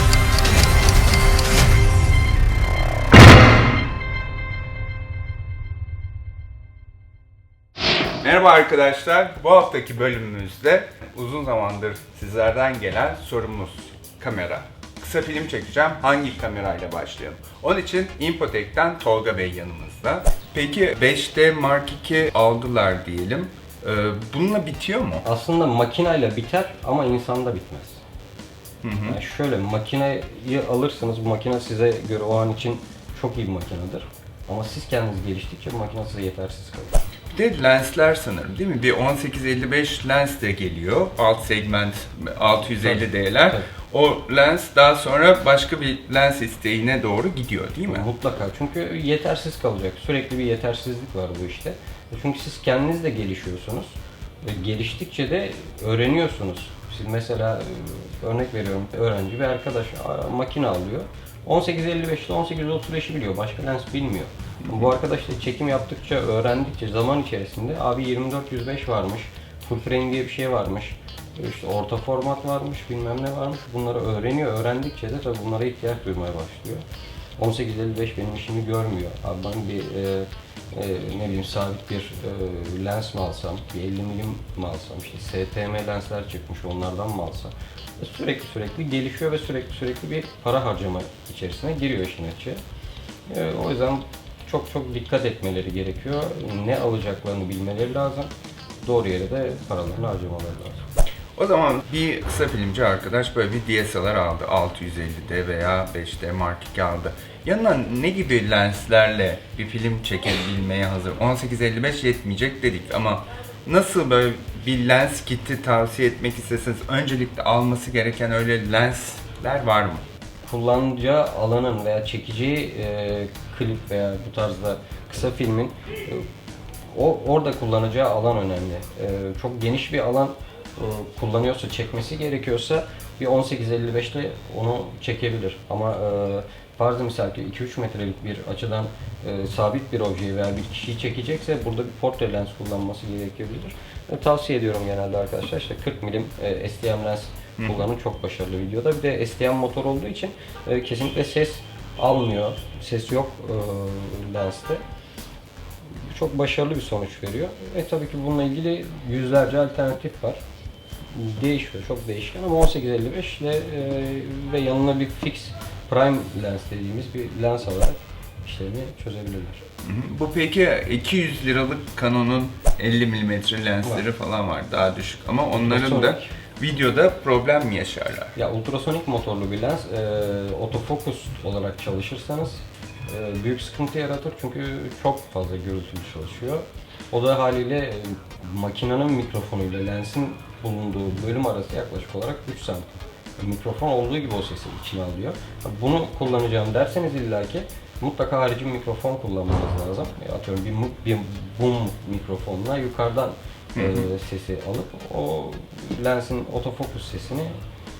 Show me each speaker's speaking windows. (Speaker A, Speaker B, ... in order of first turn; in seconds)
Speaker A: 8.2-25.2, 28.8-29.2, 37.3-48.0, 101.3-120.0, 147.6-147.8, 169.8-178.3, 203.8-204.1
Speaker B: 25.2-28.0, 29.0-37.0, 42.6-43.7, 47.9-76.8, 77.4-92.6, 93.3-98.3, 98.8-100.8, 120.5-126.2, 126.9-154.8, 156.0-160.4, 161.1-169.6, 175.5-176.3, 178.3-207.6